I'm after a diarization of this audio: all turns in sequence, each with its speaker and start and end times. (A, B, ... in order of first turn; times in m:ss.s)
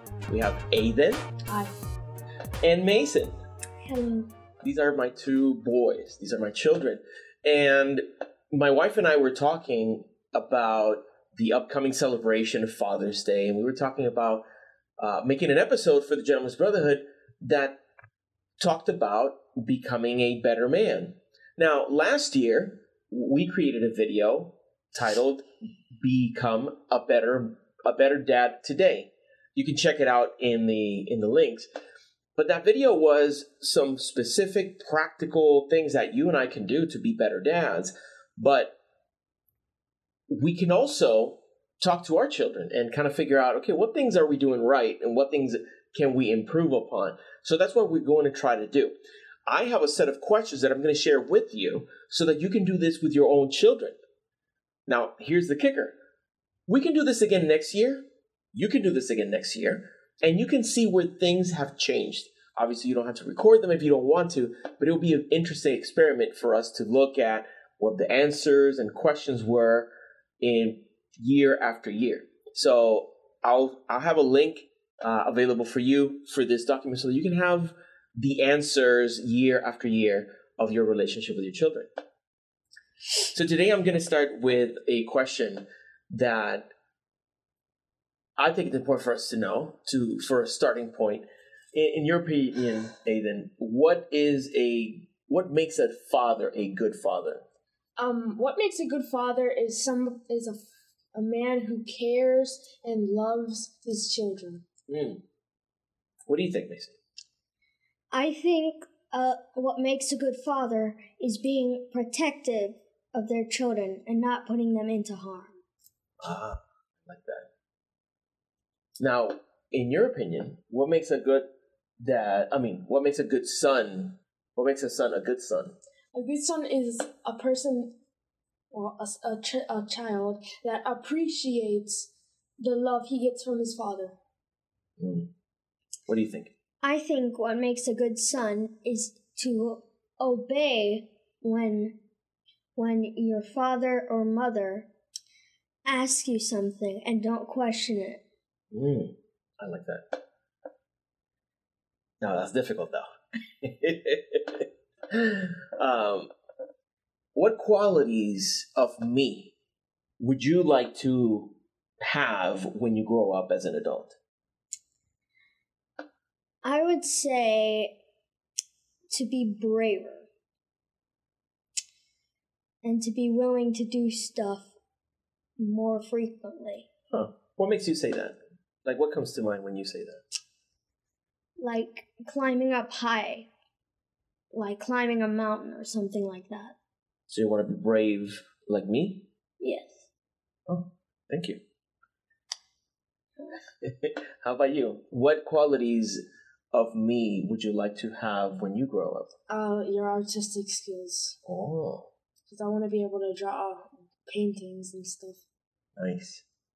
0:00.3-0:01.2 A
0:01.5-0:01.7 B
0:02.6-0:03.4 A
0:03.8-0:04.3 C
0:04.6-0:14.4 A
0:15.0-0:17.8 A
0:18.6-0:25.5 A
0:26.0-0:31.7 A
0:32.4-0:38.7 A
0:40.3-0:54.0 A
0:54.9-0:55.9 A
0:56.7-1:09.9 A
1:10.4-1:21.9 A
1:23.3-1:26.7 A
1:28.4-1:37.4 A
1:38.0-1:40.6 B
1:41.1-1:44.6 B
1:44.9-1:45.2 A
1:46.3-1:47.0 A
1:48.1-1:55.6 C
1:56.2-1:57.5 A
1:59.0-2:01.5 A
2:02.0-2:05.8 A
2:06.1-2:07.9 B
2:08.7-2:14.2 B
2:15.0-2:15.3 A
2:16.1-2:16.5 A
2:16.8-2:22.0 C
2:22.8-2:24.9 C
2:25.8-2:28.2 C
2:28.7-2:30.2 A
2:32.2-2:36.3 A
2:37.3-2:39.5 A
2:40.2-2:44.2 A
2:46.6-2:47.9 C
2:49.1-2:50.3 C
2:52.8-2:54.7 C
2:55.6-2:56.9 C
2:57.1-3:00.2 A
3:01.6-3:03.5 C
3:04.5-3:06.7 C
3:07.3-3:09.2 A
3:09.6-3:10.0 C
3:10.7-3:11.6 A
3:13.8-3:19.3 A
3:19.5-3:21.4 B
3:21.4-3:22.1 A
3:22.5-3:25.4 B
3:26.0-3:26.4 A